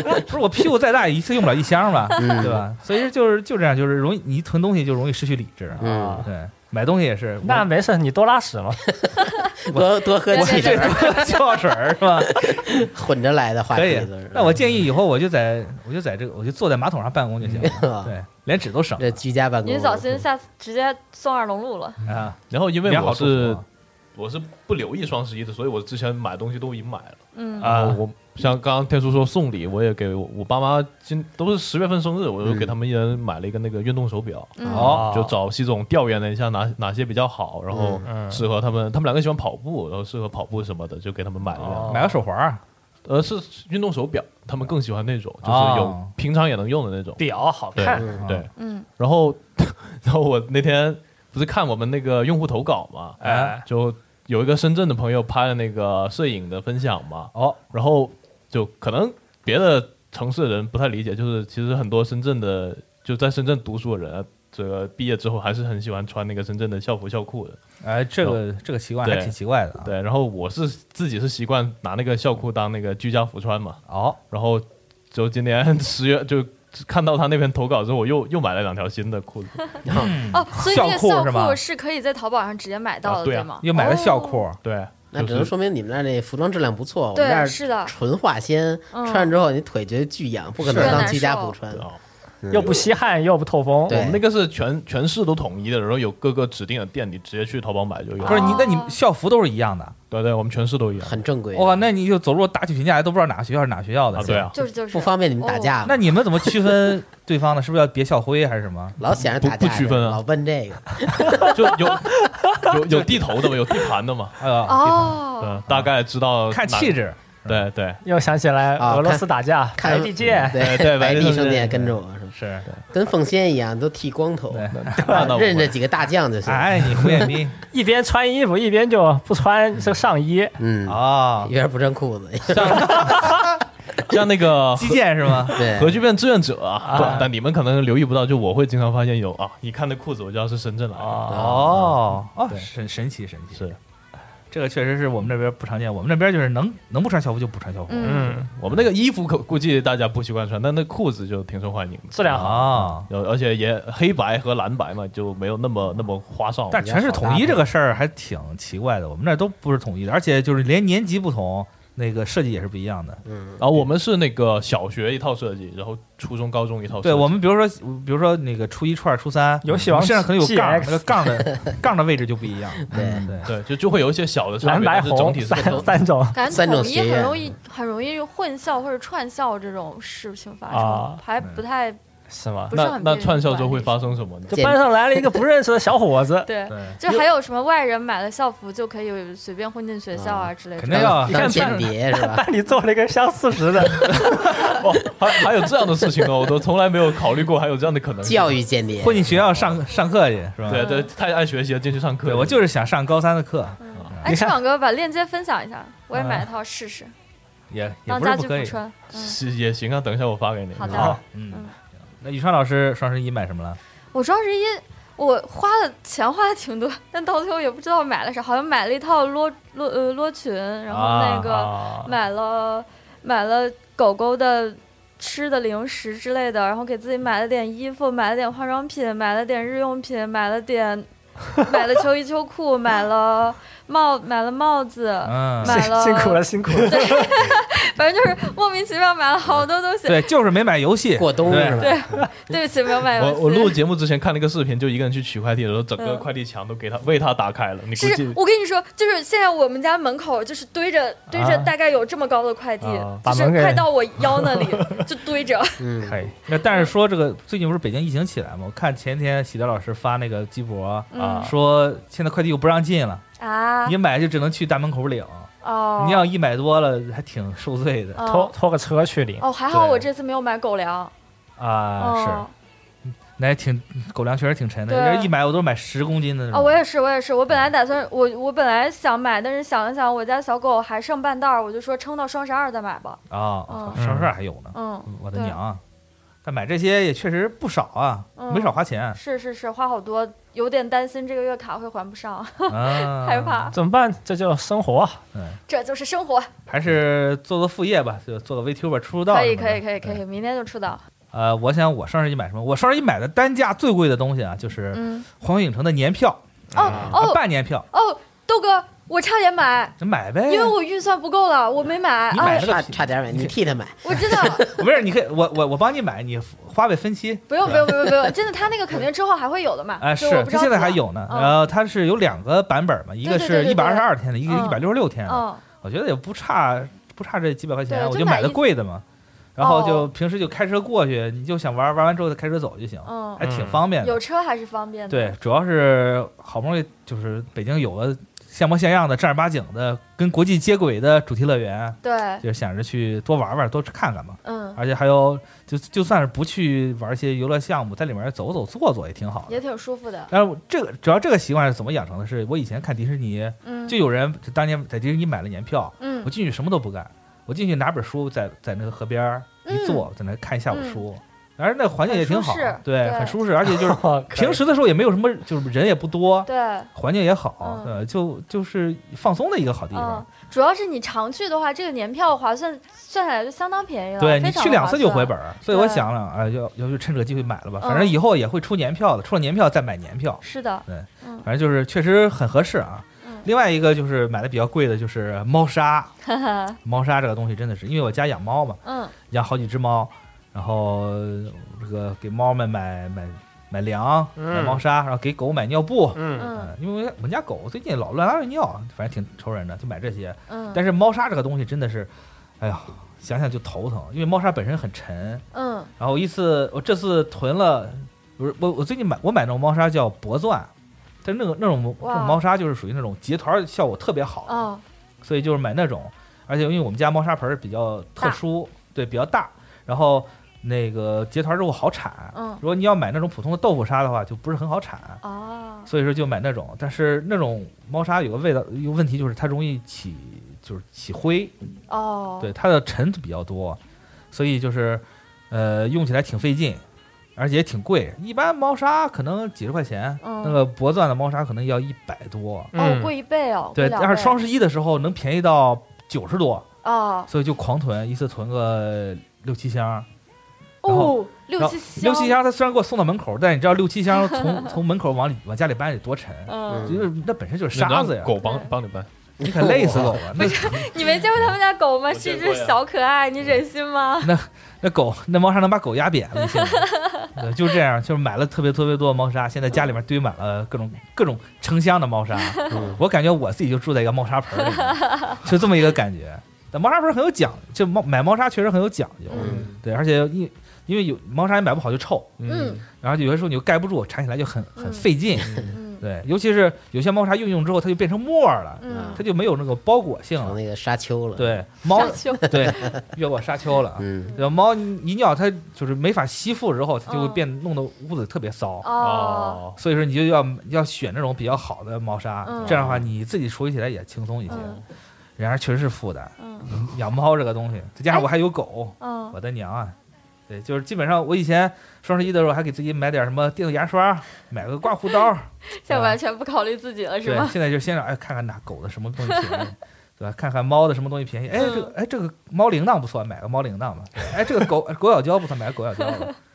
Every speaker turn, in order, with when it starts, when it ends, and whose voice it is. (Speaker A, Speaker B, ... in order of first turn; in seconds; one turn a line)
Speaker A: 0.2-7.7
Speaker B: 2.2-2.7
Speaker C: 5.8-6.3
Speaker B: 5.8-6.3
Speaker C: 7.4-8.8
Speaker B: 9.0-11.3
Speaker A: 9.7-12.5
Speaker D: 10.3-11.6
Speaker B: 12.2-14.8
Speaker A: 13.7-19.1
Speaker B: 17.6-18.1
Speaker B: 19.0-20.3
Speaker D: 19.6-22.0
Speaker A: 22.0-23.6
Speaker E: 22.5-23.6
Speaker E: 24.1-42.0
Speaker D: 27.3-27.8
Speaker A: 27.6-27.9
Speaker B: 32.4-32.8
Speaker D: 34.6-35.0
Speaker B: 34.6-34.9
Speaker A: 34.7-35.1
Speaker C: 34.7-35.4
Speaker B: 37.7-38.0
Speaker C: 38.1-38.5
Speaker C: 41.5-42.2
Speaker A: 41.9-42.6
Speaker E: 43.0-47.2
Speaker A: 45.4-46.1
Speaker C: 47.2-48.1
Speaker E: 47.8-67.6
Speaker B: 47.9-48.3
Speaker D: 48.6-48.9
Speaker C: 53.2-53.6
Speaker A: 53.2-53.5
Speaker A: 67.8-69.9
Speaker E: 69.0-79.6
Speaker A: 73.9-74.2
Speaker B: 79.8-80.2
Speaker A: 79.9-81.6
Speaker D: 80.3-84.5
Speaker E: 83.0-83.6
Speaker A: 83.6-84.6
Speaker E: 84.6-85.5
Speaker B: 85.1-91.9
Speaker D: 87.2-87.9
Speaker D: 88.9-89.3
Speaker A: 90.6-91.1
Speaker D: 90.7-91.6
Speaker E: 91.7-92.0
Speaker B: 92.4-92.8
Speaker C: 92.5-94.0
Speaker B: 93.9-94.2
Speaker E: 93.9-98.7
Speaker D: 98.2-99.0
Speaker A: 98.2-100.0
Speaker E: 100.1-101.2
Speaker B: 101.0-101.9
Speaker A: 101.5-104.5
Speaker E: 104.1-104.6
Speaker D: 104.5-105.8
Speaker B: 104.9-106.1
Speaker A: 105.8-109.0
Speaker B: 109.0-111.5
Speaker E: 109.3-110.2
Speaker E: 111.5-114.4
Speaker C: 112.2-112.7
Speaker A: 112.9-113.3
Speaker A: 114.4-115.9
Speaker D: 114.7-115.6
Speaker E: 115.4-118.0
Speaker A: 116.5-117.7
Speaker C: 118.0-120.6
Speaker B: 118.8-122.3
Speaker E: 120.2-121.9
Speaker A: 122.3-122.7
Speaker B: 122.9-127.3
Speaker A: 124.5-125.4
Speaker E: 124.7-125.7
Speaker C: 124.8-125.2
Speaker A: 126.5-127.6
Speaker C: 127.7-130.6
Speaker B: 130.6-133.2
Speaker A: 130.9-131.5
Speaker E: 132.5-133.3
Speaker A: 132.6-133.6
Speaker E: 134.0-142.0
Speaker A: 134.8-135.7
Speaker B: 135.5-136.0
Speaker C: 136.8-137.3
Speaker C: 141.0-141.4
Speaker B: 141.3-141.9
Speaker A: 141.3-143.7
Speaker A: 144.5-148.8
Speaker D: 147.9-148.3
Speaker C: 148.0-148.5
Speaker E: 148.5-157.0
Speaker C: 152.1-152.7
Speaker A: 152.3-153.1
Speaker A: 156.7-163.2
Speaker B: 156.7-157.7
Speaker B: 163.2-163.7
Speaker E: 163.6-167.4
Speaker A: 167.0-173.5
Speaker C: 169.6-171.3
Speaker B: 172.9-173.3
Speaker C: 173.0-173.3
Speaker E: 173.4-175.9
Speaker C: 174.6-176.3
Speaker B: 175.6-175.9
Speaker D: 176.3-182.0
Speaker B: 176.4-177.6
Speaker C: 180.7-181.2
Speaker C: 182.3-182.7
Speaker D: 182.7-183.9
Speaker E: 182.7-184.6
Speaker B: 184.5-184.8
Speaker C: 184.5-186.5
Speaker D: 186.5-191.2
Speaker A: 186.7-187.0
Speaker B: 190.1-192.4
Speaker A: 190.8-191.9
Speaker C: 191.2-194.5
Speaker E: 194.6-198.6
Speaker B: 198.2-199.3
Speaker A: 199.0-200.9
Speaker E: 199.2-199.8
Speaker E: 200.7-202.6
Speaker D: 200.7-201.1
Speaker A: 202.2-204.3
Speaker D: 203.8-207.1
Speaker C: 204.2-204.6
Speaker C: 206.1-206.5
Speaker A: 207.7-208.8
Speaker D: 208.1-209.4
Speaker E: 209.1-211.2
Speaker D: 210.8-211.7
Speaker C: 210.9-211.2
Speaker A: 211.3-213.8
Speaker D: 214.1-240.3
Speaker A: 220.9-221.5
Speaker C: 221.5-222.1
Speaker A: 235.2-235.8
Speaker C: 235.6-237.3
Speaker A: 240.1-241.8
Speaker B: 241.2-242.2
Speaker D: 241.6-243.8
Speaker E: 243.2-248.4
Speaker D: 246.0-246.3
Speaker D: 248.0-255.8
Speaker C: 251.3-251.7
Speaker C: 252.8-253.9
Speaker B: 255.8-256.2
Speaker C: 256.0-256.4
Speaker A: 256.5-263.2
Speaker D: 256.6-256.9
Speaker D: 261.1-261.6
Speaker C: 261.1-261.5
Speaker D: 263.4-264.0
Speaker A: 263.9-268.2
Speaker D: 265.6-266.3
Speaker D: 268.2-268.5
Speaker C: 268.3-269.4
Speaker D: 269.4-271.1
Speaker A: 269.7-270.1
Speaker A: 271.6-272.5
Speaker D: 272.0-272.5
Speaker A: 273.1-276.8
Speaker D: 274.9-275.3
Speaker D: 276.5-284.0
Speaker A: 283.3-285.8
Speaker C: 284.0-284.3
Speaker D: 284.7-285.6
Speaker A: 286.4-289.2
Speaker D: 288.4-293.8
Speaker A: 292.7-293.8
Speaker C: 293.7-295.2
Speaker D: 295.7-296.5
Speaker A: 296.7-300.2
Speaker D: 299.3-301.0
Speaker A: 301.3-306.4
Speaker D: 304.9-305.3
Speaker C: 306.7-307.1
Speaker D: 306.8-312.7
Speaker B: 306.9-307.1
Speaker A: 307.0-307.9
Speaker A: 310.0-310.8
Speaker B: 312.3-314.8
Speaker A: 312.4-313.5
Speaker D: 314.0-315.0
Speaker A: 314.6-318.1
Speaker D: 317.5-321.6
Speaker A: 320.0-329.0
Speaker D: 323.2-325.6
Speaker D: 327.9-328.6
Speaker A: 329.6-334.2
Speaker D: 329.6-330.1
Speaker D: 333.1-335.4
Speaker C: 333.4-333.8
Speaker A: 335.1-349.6
Speaker D: 342.0-342.4
Speaker D: 344.4-344.8
Speaker D: 349.5-350.3
Speaker A: 350.3-370.2
Speaker D: 353.6-354.0
Speaker D: 356.0-356.3
Speaker D: 359.7-360.1
Speaker D: 360.7-361.0
Speaker D: 362.1-363.4
Speaker C: 363.7-364.6
Speaker D: 366.5-366.9
Speaker D: 367.6-367.9
Speaker D: 369.9-376.1
Speaker A: 374.2-386.1
Speaker D: 377.8-378.2
Speaker D: 380.4-381.5
Speaker D: 386.3-386.8
Speaker A: 386.8-388.8
Speaker D: 388.9-389.1
Speaker A: 389.3-405.4
Speaker C: 394.4-394.8
Speaker C: 396.1-396.5
Speaker D: 396.4-396.7
Speaker D: 400.5-400.8
Speaker D: 405.5-405.9
Speaker A: 406.0-410.7
Speaker A: 411.2-414.7
Speaker D: 412.0-412.4
Speaker D: 414.5-414.8
Speaker A: 415.2-425.2
Speaker D: 422.3-422.6
Speaker D: 425.2-425.9
Speaker A: 425.9-431.5
Speaker D: 431.9-432.5
Speaker A: 432.4-433.8
Speaker A: 434.3-436.8
Speaker A: 437.4-442.7
Speaker D: 440.2-440.6
Speaker C: 442.7-443.1
Speaker D: 442.8-444.4
Speaker A: 443.8-446.7
Speaker D: 446.8-447.3
Speaker A: 447.3-450.1
Speaker D: 450.8-452.4
Speaker A: 450.9-458.3
Speaker D: 454.2-454.6
Speaker D: 456.5-457.0
Speaker B: 456.7-457.1
Speaker E: 457.7-459.1
Speaker D: 458.4-458.7
Speaker B: 459.4-460.2
Speaker A: 459.4-460.9
Speaker D: 460.4-464.3
Speaker E: 462.1-462.8
Speaker A: 464.2-482.4
Speaker D: 466.4-467.3
Speaker D: 472.5-472.8
Speaker B: 472.7-473.0
Speaker D: 474.6-475.4
Speaker D: 479.3-479.6
Speaker B: 479.3-479.8
Speaker E: 482.4-482.8
Speaker D: 482.5-482.8
Speaker A: 482.9-490.6
Speaker D: 484.8-485.1
Speaker E: 485.4-485.8
Speaker D: 485.7-486.0
Speaker D: 488.8-489.2
Speaker B: 488.9-489.2
Speaker B: 490.4-493.0
Speaker A: 491.4-498.9
Speaker D: 491.9-492.9
Speaker B: 494.0-494.4
Speaker D: 494.3-494.5
Speaker D: 497.1-497.5
Speaker D: 498.8-499.6
Speaker E: 499.0-499.8
Speaker A: 499.8-504.7
Speaker D: 502.4-502.8
Speaker B: 502.7-503.1
Speaker D: 504.5-504.8
Speaker E: 504.5-504.9
Speaker A: 505.4-510.0
Speaker D: 506.4-506.7
Speaker D: 509.0-509.4
Speaker A: 510.5-516.2
Speaker D: 515.7-517.6
Speaker A: 517.2-526.4
Speaker D: 519.4-519.6
Speaker D: 521.5-521.9